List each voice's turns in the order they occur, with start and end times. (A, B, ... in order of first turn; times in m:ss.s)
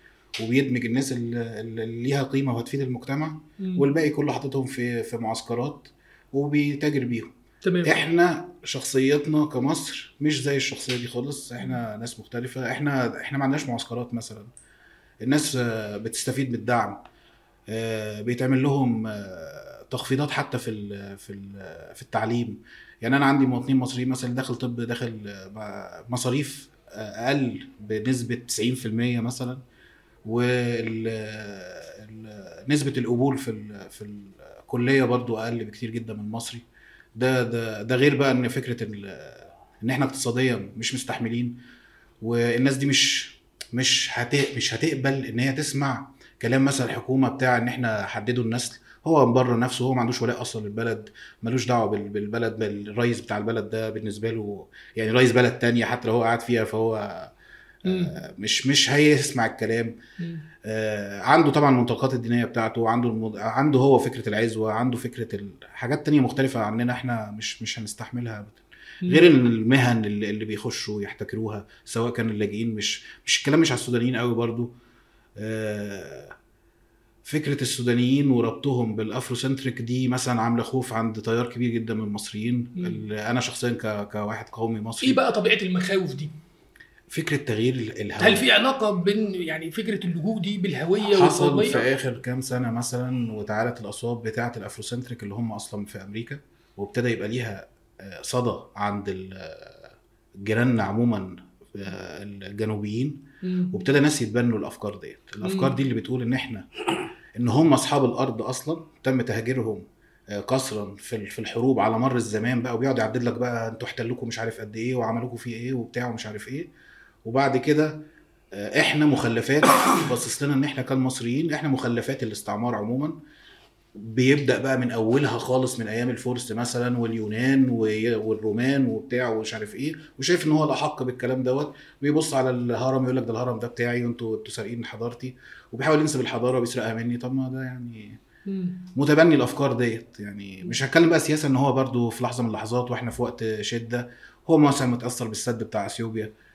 0:00.4-0:07.3 A
0:03.6-0:03.9 B
0:07.6-0:08.0 B
0:07.8-0:14.5 A
0:15.2-0:17.0 A
0:17.7-0:29.6 A
0:30.2-0:36.6 A
0:37.2-0:41.6 A
0:42.2-0:57.3 A
0:57.9-0:58.1 B
0:57.9-1:00.0 A
1:00.2-1:00.4 B
1:00.6-1:14.7 A
1:09.0-1:09.3 B
1:15.4-1:16.3 A
1:17.2-1:25.2 A
1:22.8-1:23.1 B
1:25.0-1:26.3 B
1:27.1-1:28.4 A
1:28.2-1:31.8 B
1:31.1-1:43.2 A
1:43.4-1:43.8 B
1:43.7-1:46.7 A
1:45.4-1:45.8 B
1:47.4-1:56.7 A
1:57.2-1:58.0 A
1:58.6-2:03.1 A
2:04.0-2:18.2 A
2:18.5-2:18.8 B
2:19.0-2:26.3 A